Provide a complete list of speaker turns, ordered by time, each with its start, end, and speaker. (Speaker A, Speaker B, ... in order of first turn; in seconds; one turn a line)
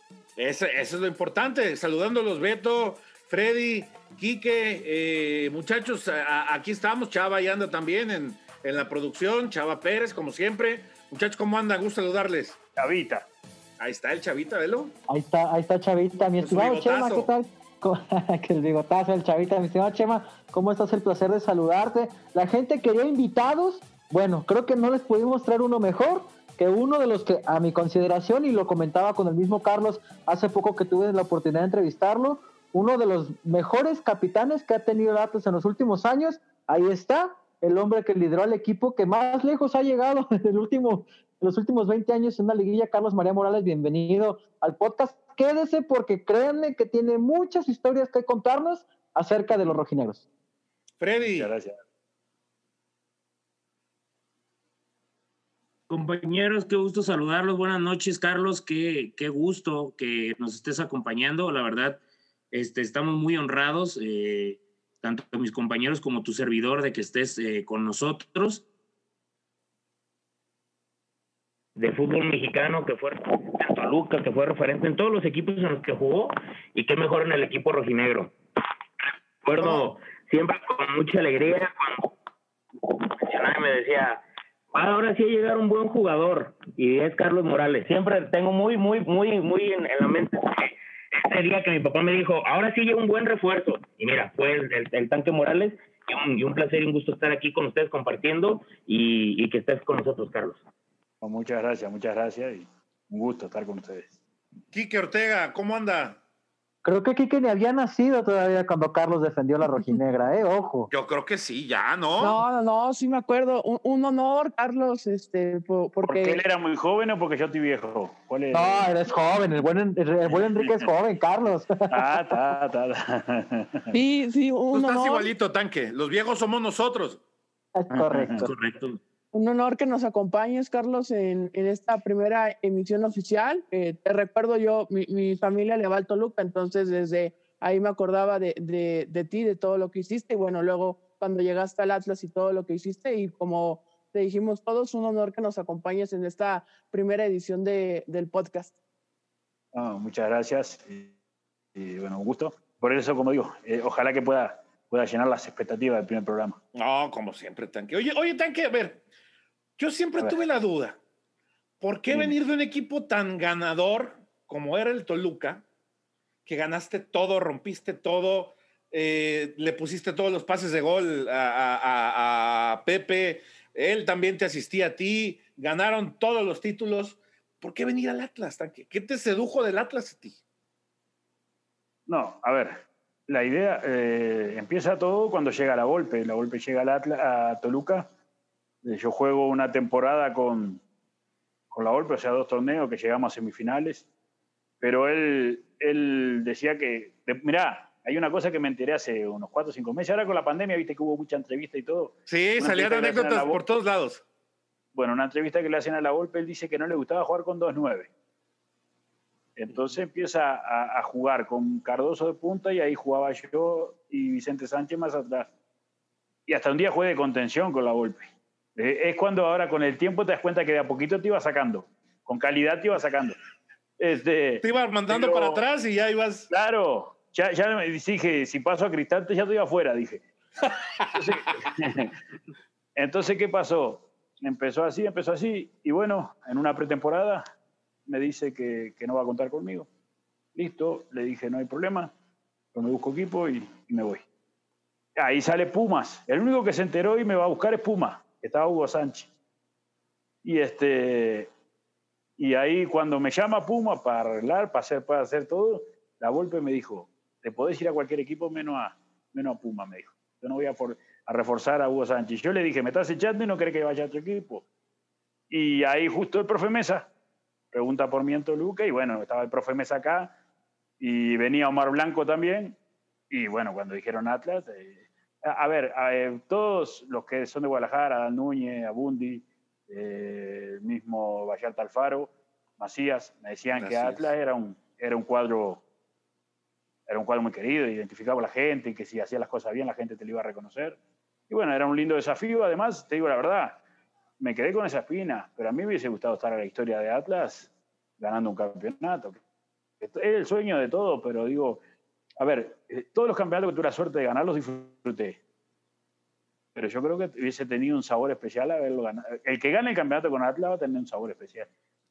Speaker A: 0.4-12.6
Speaker B: 12.8-13.3
Speaker A: 13.8-14.9
Speaker C: 15.1-50.2
Speaker A: 16.4-17.3
Speaker A: 51.0-51.5
Speaker B: 51.2-51.8
Speaker D: 55.9-62.0
Speaker D: 62.5-68.6
Speaker D: 71.8-78.3
Speaker D: 79.4-82.1
Speaker D: 82.9-84.2
Speaker D: 84.7-100.6
Speaker B: 101.2-104.1
Speaker A: 104.7-106.2
Speaker C: 106.8-110.9
Speaker A: 110.9-112.4
Speaker E: 112.2-116.4
Speaker B: 116.0-118.9
Speaker C: 118.5-122.3
Speaker B: 120.3-120.8
Speaker B: 121.9-123.9
Speaker E: 123.9-125.3
Speaker A: 124.7-127.2
Speaker C: 127.7-128.5
Speaker B: 127.9-128.5
Speaker D: 128.4-129.0
Speaker E: 129.3-148.7
Speaker B: 149.7-151.1
Speaker B: 151.7-156.6
Speaker A: 156.7-159.0
Speaker A: 159.8-161.0
Speaker A: 161.8-165.6
Speaker B: 162.1-162.3
Speaker A: 166.4-180.4
Speaker B: 182.1-188.1
Speaker B: 188.8-190.8
Speaker B: 191.7-194.1
Speaker B: 194.8-203.6
Speaker A: 202.3-204.2
Speaker B: 204.9-208.1
Speaker B: 209.6-215.5
Speaker B: 216.5-223.4
Speaker B: 224.0-225.6
Speaker A: 224.6-226.5
Speaker B: 226.5-230.2
Speaker B: 231.0-232.1
Speaker B: 232.9-237.4
Speaker B: 238.1-239.9
Speaker B: 240.5-242.1
Speaker B: 242.7-244.2
Speaker B: 245.2-249.3
Speaker B: 250.4-251.5
Speaker B: 252.4-264.6
Speaker B: 265.5-267.1
Speaker B: 267.7-270.3
Speaker B: 271.0-272.8
Speaker B: 273.3-285.8
Speaker A: 283.8-284.3
Speaker B: 287.1-291.0
Speaker B: 291.5-293.8
Speaker B: 294.4-299.4
Speaker B: 300.0-301.8
Speaker B: 302.4-305.4
Speaker B: 306.7-311.7